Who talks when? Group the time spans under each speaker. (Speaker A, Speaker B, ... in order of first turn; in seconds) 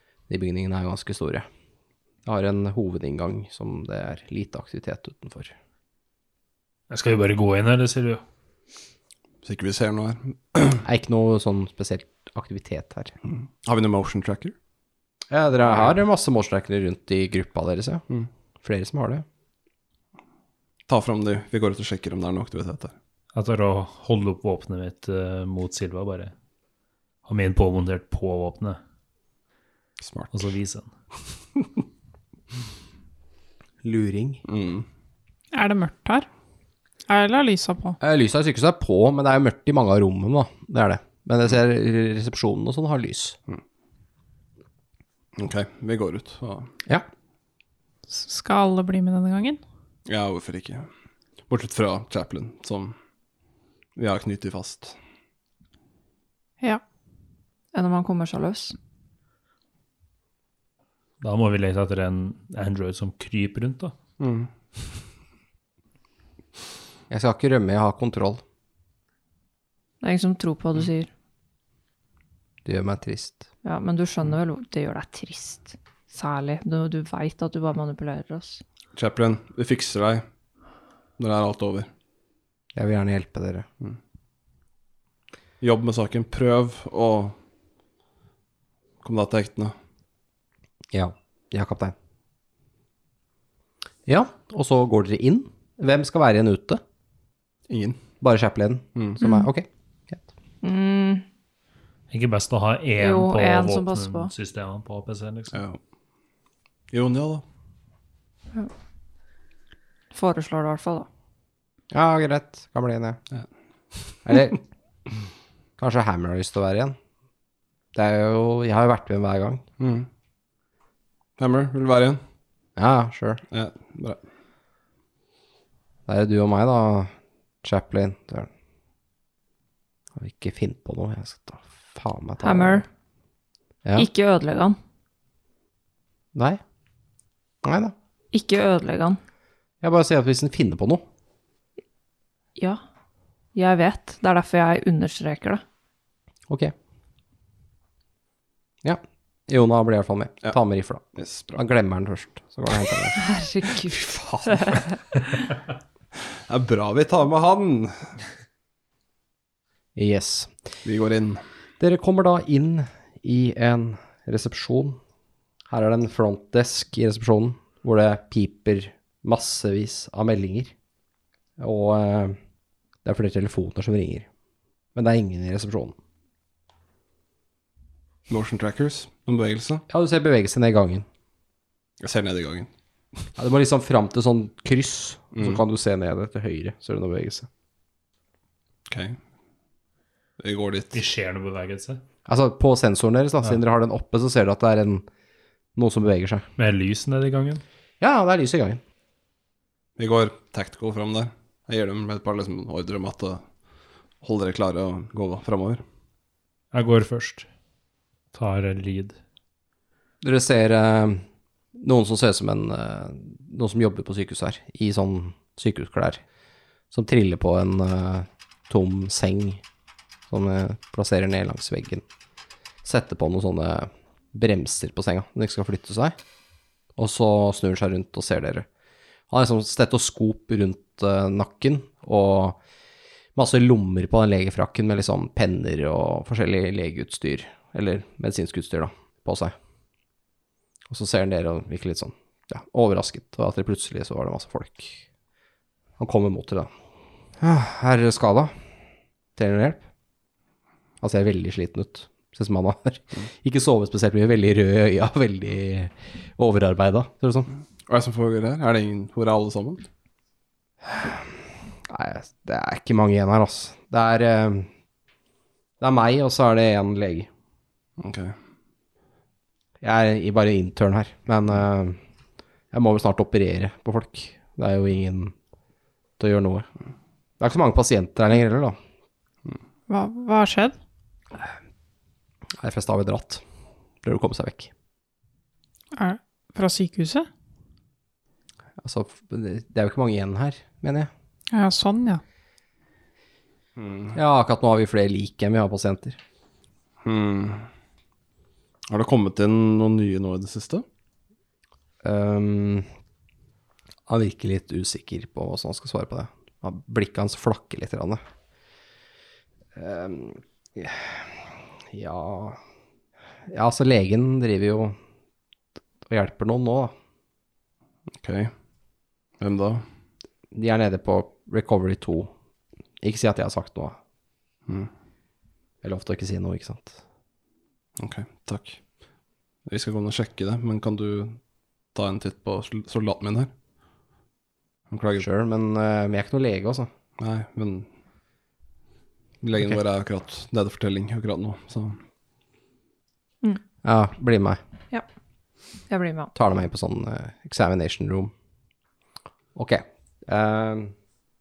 Speaker A: 0.3-1.5, 2.2-5.5, 10.8-13.2, 15.3-18.0, 18.6-19.2, 33.8-34.4, 38.0-43.4, 67.1-68.4, 72.7-73.5, 82.8-83.7, 90.9-92.0, 94.1-96.8, 98.2-100.2, 111.9-113.2, 114.2-114.6, 115.8-117.0, 117.9-119.6, 122.8-123.4, 126.1-128.5, 130.2-132.8, 136.3-136.6, 137.6-137.9, 139.8-141.0, 148.8-153.2, 160.0-160.5, 161.8-165.0, 165.7-170.7, 171.6-172.4, 173.1-174.3, 174.9-175.9, 179.9-181.1, 183.4-187.5, 192.3-195.1, 195.8-196.5, 198.0-198.8, 210.2-211.2, 211.8-216.2, 216.9-219.6, 220.3-222.0, 222.8-226.2, 227.0-228.7, 229.3-232.6, 233.4-239.5, 240.9-245.0, 246.0-246.7, 247.4-248.5, 249.4-249.8, 251.0-257.5, 260.9-261.2, 261.9-264.7, 265.8-267.3, 269.8-272.0, 272.7-275.3, 276.2-276.7, 277.4-278.8, 282.6-283.4, 284.0-284.7, 288.8-291.1, 294.1-296.2, 302.0-302.9, 304.1-308.2, 309.8-311.4, 311.9-312.6, 313.5-315.0, 316.1-316.9, 320.5-322.3, 323.0-324.0, 325.8-327.0, 335.2-336.9, 343.8-344.6, 346.4-348.3, 349.6-350.9
Speaker B: 6.9-8.2, 23.3-26.3, 27.2-28.8, 30.3-30.9, 61.2-64.0, 102.1-105.6, 190.9-192.0, 196.6-197.6, 206.7-207.5, 208.3-209.2
Speaker C: 9.4-10.8, 13.6-14.6, 20.9-22.9, 30.0-30.5, 34.5-34.9, 45.4-46.7, 50.1-50.9, 51.5-53.0, 54.0-55.0, 64.2-64.5, 79.0-80.2, 81.2-81.9, 85.6-87.4, 89.0-89.7, 97.7-98.0, 105.5-105.8, 106.9-107.4, 119.8-120.1, 121.4-122.2, 123.5-124.2, 151.2-151.6, 153.9-154.6, 156.5-158.2, 160.8-161.4, 178.3-179.8, 182.0-182.7, 185.3-185.6, 188.9-189.2, 190.4-191.0, 200.0-203.4, 204.2-205.8, 257.9-259.9, 268.0-268.4, 293.8-294.2, 297.0-297.7, 298.9-300.9, 318.1-318.5, 319.4-319.8, 328.0-328.8, 329.7-331.4, 331.9-333.5, 334.9-335.3, 337.2-337.9, 339.4-342.0
Speaker D: 35.5-36.3, 37.1-38.0, 48.1-49.6, 279.9-280.8, 285.9-287.3, 291.5-292.2
Speaker E: 57.7-58.8, 70.0-71.1, 73.6-78.6, 99.2-99.5, 100.6-101.2, 103.0-104.3, 110.1-111.1, 132.4-132.9, 134.0-134.8, 138.3-139.2, 143.6-145.6, 153.2-155.0, 345.9-346.3